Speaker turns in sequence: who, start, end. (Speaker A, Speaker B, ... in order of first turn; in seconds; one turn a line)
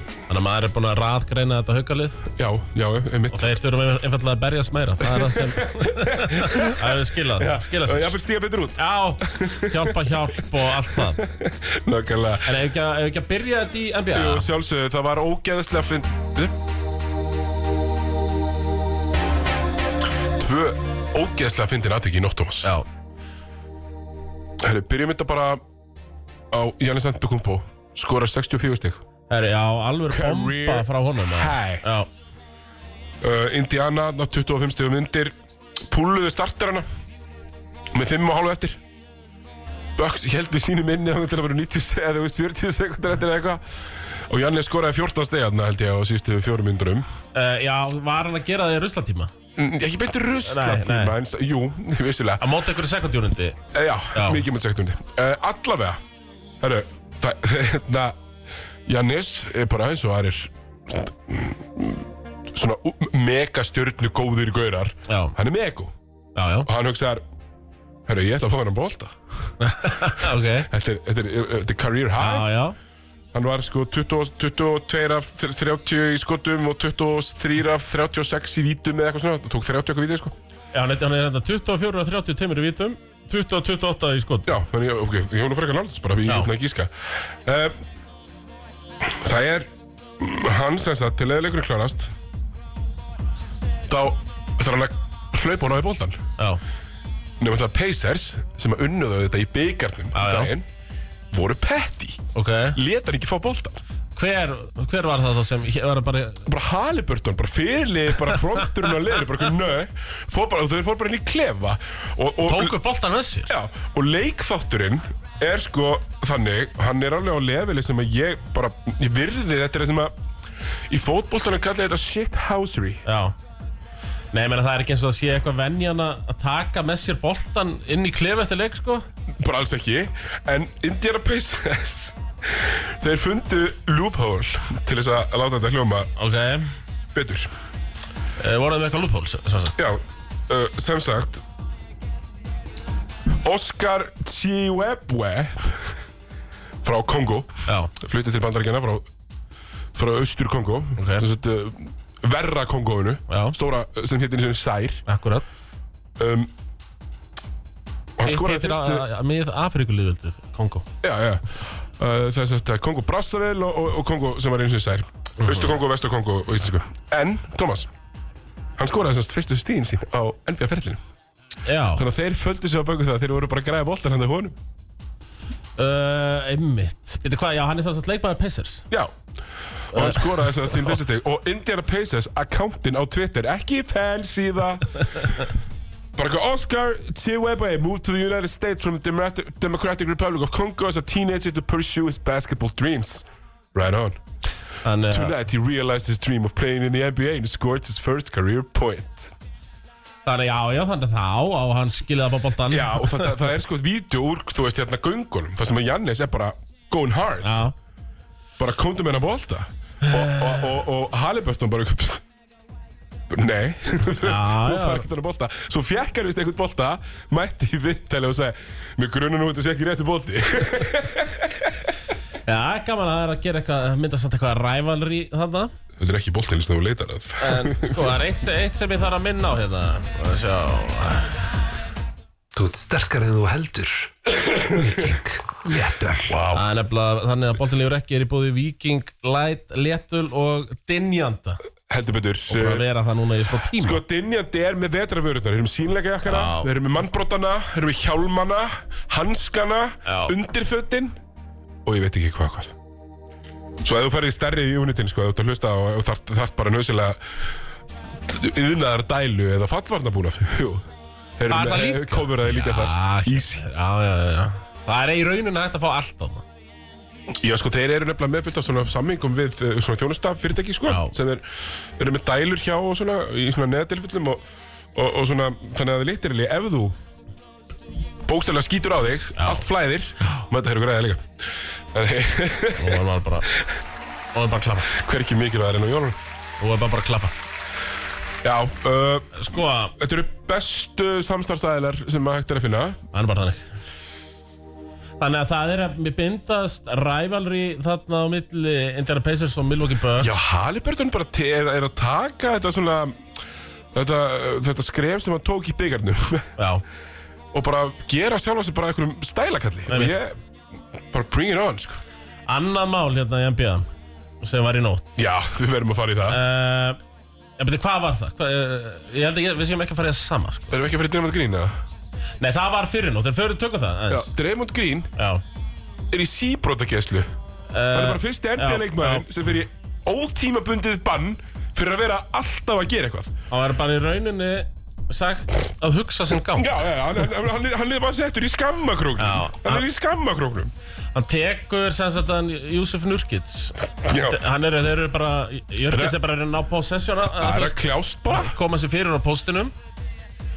Speaker A: 0.3-2.2
Speaker B: 2.4-3.5
Speaker A: 3.3-8.2
Speaker B: 5.0-12.6
Speaker A: 8.8-11.2
Speaker A: 12.4-14.5
Speaker B: 14.1-16.5
Speaker B: 20.4-22.7
Speaker B: 24.6-25.6
Speaker B: 26.5-29.0
Speaker A: 29.3-32.1
Speaker B: 30.1-31.8
Speaker B: 33.2-35.3
Speaker B: 35.9-36.9
Speaker B: 37.9-38.8
Speaker B: 40.0-47.0
Speaker A: 47.3-49.3
Speaker B: 49.5-52.4
Speaker A: 50.4-51.1
Speaker A: 52.4-53.6
Speaker B: 53.7-56.0
Speaker A: 54.1-54.4
Speaker B: 56.6-58.2
Speaker B: 58.9-65.9
Speaker A: 65.1-65.3
Speaker A: 66.3-66.7
Speaker B: 66.7-67.2
Speaker B: 68.1-69.2
Speaker A: 69.6-70.7
Speaker B: 70.7-72.5
Speaker A: 72.2-72.8
Speaker B: 73.3-80.3
Speaker A: 80.7-84.5
Speaker B: 84.5-87.8
Speaker B: 89.0-92.1
Speaker B: 93.9-96.2
Speaker B: 97.4-100.7
Speaker A: 100.1-100.5
Speaker B: 101.3-103.8
Speaker A: 102.3-102.8
Speaker A: 104.2-106.5
Speaker B: 106.5-112.7
Speaker A: 112.4-113.5
Speaker B: 113.5-120.1
Speaker B: 120.9-123.0
Speaker A: 123.0-123.3
Speaker A: 124.3-129.1
Speaker B: 129.4-136.1
Speaker A: 136.2-136.7
Speaker B: 137.1-137.5
Speaker A: 138.4-139.8
Speaker B: 139.8-141.4
Speaker B: 143.4-145.9
Speaker B: 146.8-149.1
Speaker A: 147.7-147.9
Speaker B: 149.9-155.0
Speaker A: 151.0-151.2
Speaker A: 153.3-153.5
Speaker A: 155.1-155.4
Speaker B: 156.2-156.5
Speaker B: 158.2-159.0
Speaker A: 158.2-160.9
Speaker B: 161.0-161.4
Speaker B: 162.0-167.9
Speaker A: 165.4-165.7
Speaker B: 168.8-171.0
Speaker A: 171.6-172.0
Speaker B: 171.9-174.6
Speaker A: 175.8-178.9
Speaker B: 179.9-185.3
Speaker A: 179.9-180.8
Speaker B: 186.2-194.2
Speaker A: 194.8-195.3
Speaker B: 195.1-199.3
Speaker A: 200.2-203.4
Speaker B: 202.7-207.7
Speaker A: 207.4-207.7
Speaker B: 208.6-212.2
Speaker A: 210.0-210.7
Speaker B: 213.3-221.7
Speaker A: 214.2-215.1
Speaker A: 222.5-225.7
Speaker B: 226.0-228.2
Speaker A: 227.4-231.4
Speaker C: 232.5-236.4
Speaker B: 236.3-236.7
Speaker A: 236.5-241.6
Speaker B: 241.9-242.8
Speaker A: 242.5-244.0
Speaker B: 243.8-251.1
Speaker A: 246.2-246.7
Speaker A: 250.0-250.3
Speaker B: 251.8-252.7
Speaker B: 253.8-257.2
Speaker B: 258.2-260.9
Speaker B: 261.4-263.6
Speaker A: 261.5-266.4
Speaker B: 267.4-271.5
Speaker A: 270.9-271.1
Speaker B: 272.0-274.4
Speaker B: 274.9-276.9
Speaker B: 278.2-281.2
Speaker A: 279.4-279.6
Speaker B: 281.9-283.0
Speaker A: 282.8-283.5
Speaker A: 284.3-284.9
Speaker B: 284.9-286.2
Speaker A: 286.6-287.3
Speaker B: 288.4-289.4
Speaker A: 289.3-289.9
Speaker B: 289.9-293.0
Speaker A: 293.1-293.6
Speaker A: 295.2-300.3
Speaker B: 300.2-303.2
Speaker B: 303.9-306.5
Speaker A: 306.6-306.8
Speaker B: 307.5-310.4
Speaker A: 309.9-310.1
Speaker B: 311.1-312.0
Speaker A: 312.5-313.9
Speaker A: 314.4-315.2
Speaker B: 315.2-316.4
Speaker A: 316.3-317.0
Speaker A: 317.6-320.8
Speaker B: 320.7-321.7
Speaker A: 322.4-324.3
Speaker B: 324.1-325.1
Speaker A: 325.1-325.4
Speaker B: 326.1-327.3
Speaker A: 327.7-329.3
Speaker B: 327.9-333.3
Speaker A: 333.5-336.9
Speaker B: 336.5-340.7
Speaker A: 339.2-339.9
Speaker A: 341.1-349.7
Speaker B: 344.0-344.4
Speaker B: 345.9-346.2
Speaker B: 347.2-348.6